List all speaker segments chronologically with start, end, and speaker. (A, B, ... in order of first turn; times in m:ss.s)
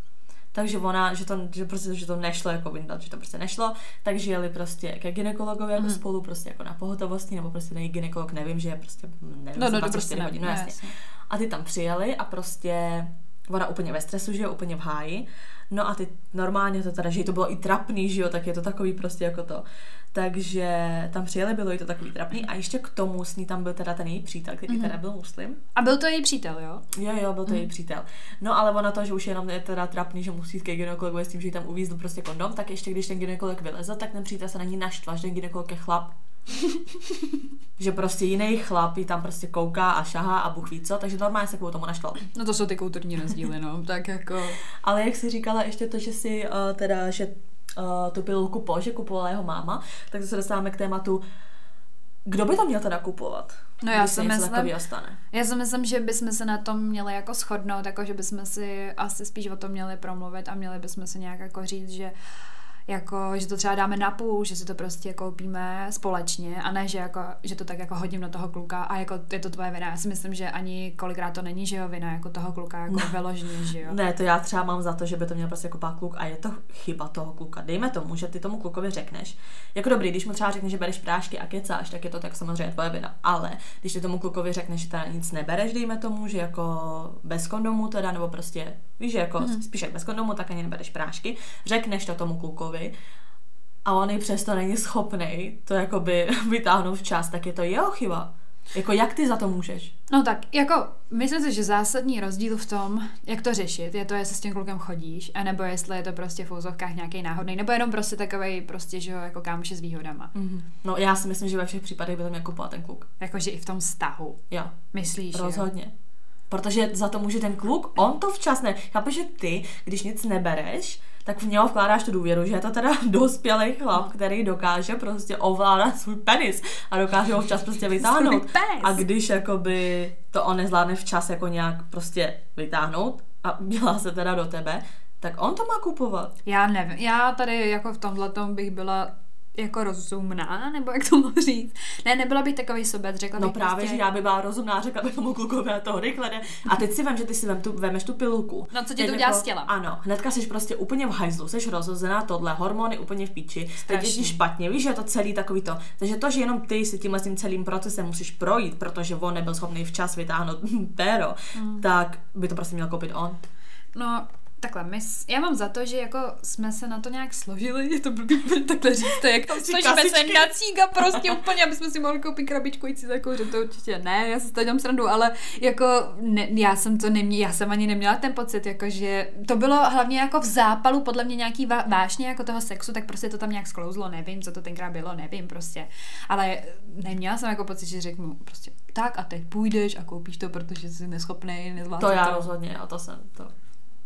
0:00.5-0:25.6 A
0:09.6-0:10.9 B
0:24.7-0:25.0 B
0:25.7-0:26.8 B
0:26.9-0:36.1 A
0:37.8-0:42.2 A
0:42.3-0:44.6 B
0:44.8-0:51.2 A
0:52.2-0:55.2 A
0:53.8-0:54.7 B
0:55.3-1:02.1 B
1:02.9-1:14.0 B
1:12.9-1:32.9 A
1:33.8-1:39.9 A
1:40.1-1:50.3 B
1:50.3-1:53.1 A
1:53.2-1:54.4 B
1:54.5-1:54.8 A
1:54.9-1:55.7 B
1:55.3-1:55.9 A
1:56.5-2:16.3 A
2:08.0-2:09.0 B
2:16.4-2:24.0 B
2:23.4-2:43.4 A
2:28.7-2:29.7 B
2:33.8-2:34.4 B
2:41.6-2:41.8 B
2:43.9-3:12.5 B
2:49.5-2:51.4 A
3:12.0-3:13.5 A